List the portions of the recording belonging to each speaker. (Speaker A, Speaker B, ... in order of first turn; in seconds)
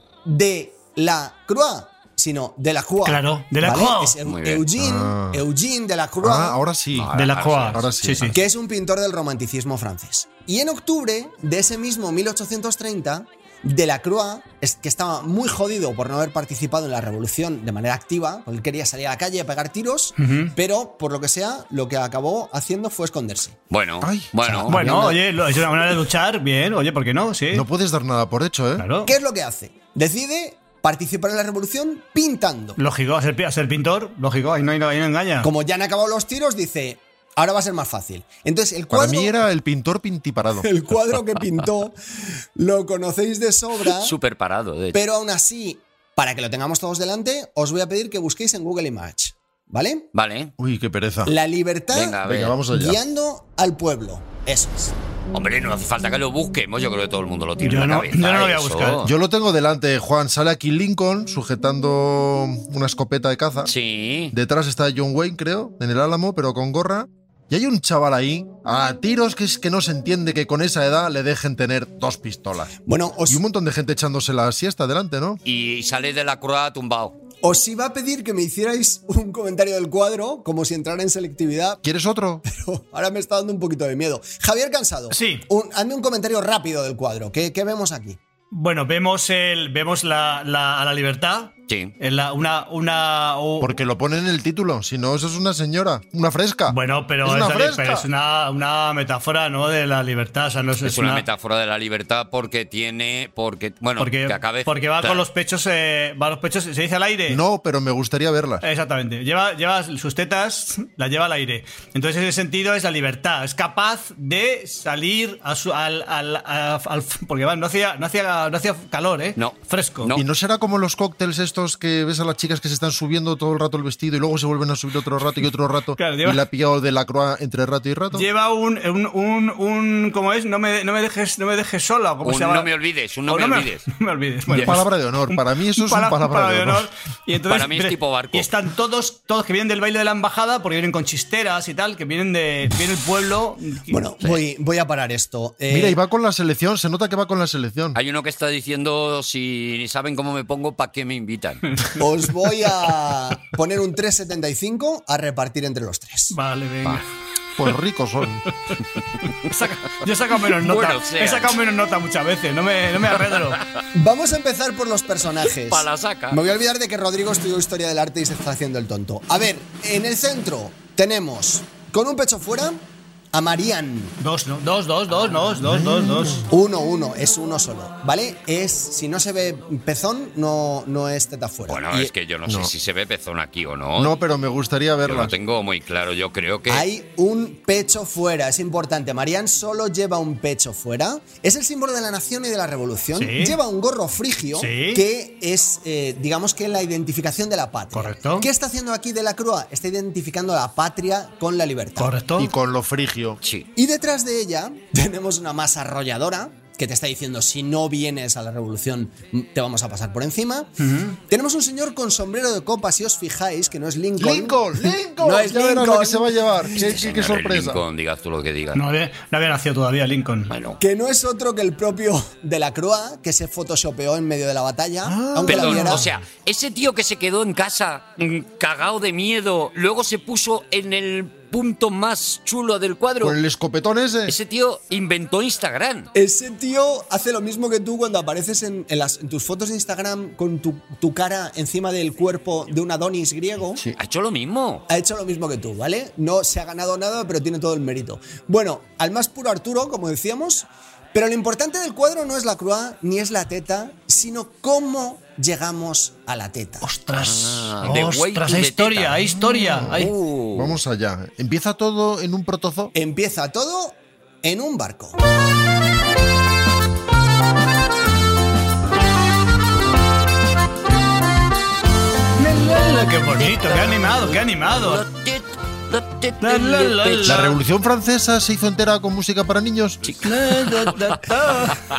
Speaker A: 0.2-6.6, 8.3-23.6, 24.7-25.2, 29.0-32.8, 35.4-39.4, 40.6-42.0, 42.5-44.1, 44.9-50.1, 51.3-55.0, 72.9-73.4, 77.4-81.8, 82.5-88.2, 143.9-146.0, 152.0-156.3, 163.9-174.2, 176.5-182.1, 186.7-202.1, 203.8-210.7, 211.3-216.7, 220.8-226.1, 236.2-243.8, 244.9-256.9, 262.9-265.2
Speaker B: 3.0-4.2, 7.2-8.3, 20.2-20.6, 24.7-27.7, 28.8-29.1, 32.8-35.5, 57.6-59.0, 85.1-85.5, 88.5-93.8, 96.7-101.2, 104.0-107.4, 108.6-120.1, 126.0-126.4, 128.1-132.7, 133.3-144.0, 156.3-157.0, 159.4-163.6, 174.2-176.4, 193.2-193.6, 194.6-195.0, 197.9-198.5, 202.0-202.5, 210.8-211.2, 218.7-220.5, 256.8-260.1, 272.4-275.1, 276.4-277.6, 280.2-281.8
Speaker C: 4.2-4.7, 6.9-8.3, 23.7-24.8, 43.9-45.0, 50.1-50.5, 51.9-52.6, 55.3-59.1, 63.7-64.3, 75.5-77.2, 91.7-91.9, 100.8-105.2, 119.4-120.3, 132.2-133.9, 134.5-134.8, 137.5-138.5, 147.9-151.8, 160.4-161.6, 165.7-166.4, 181.7-184.2, 185.1-186.9, 203.4-203.7, 216.8-218.8, 220.5-220.8, 225.5-233.4, 234.3-236.1, 243.9-244.9, 257.1-259.3, 259.9-260.8, 273.6-273.9, 274.7-277.5, 280.1-281.1
Speaker D: 4.8-5.4, 6.2-7.1, 7.7-8.3, 24.0-24.7, 27.5-28.9, 38.9-40.7, 50.6-51.4, 52.2-53.0, 59.0-63.7, 64.3-72.7, 73.3-75.4, 81.8-82.4, 93.6-98.1, 107.3-108.7, 120.2-128.3, 134.6-136.9, 145.7-148.0, 157.6-158.4, 175.6-176.4, 182.5-182.7, 184.0-185.3, 202.4-203.4, 214.2-217.8, 225.1-226.1, 233.2-234.4, 259.4-260.0, 260.5-262.9, 277.2-280.0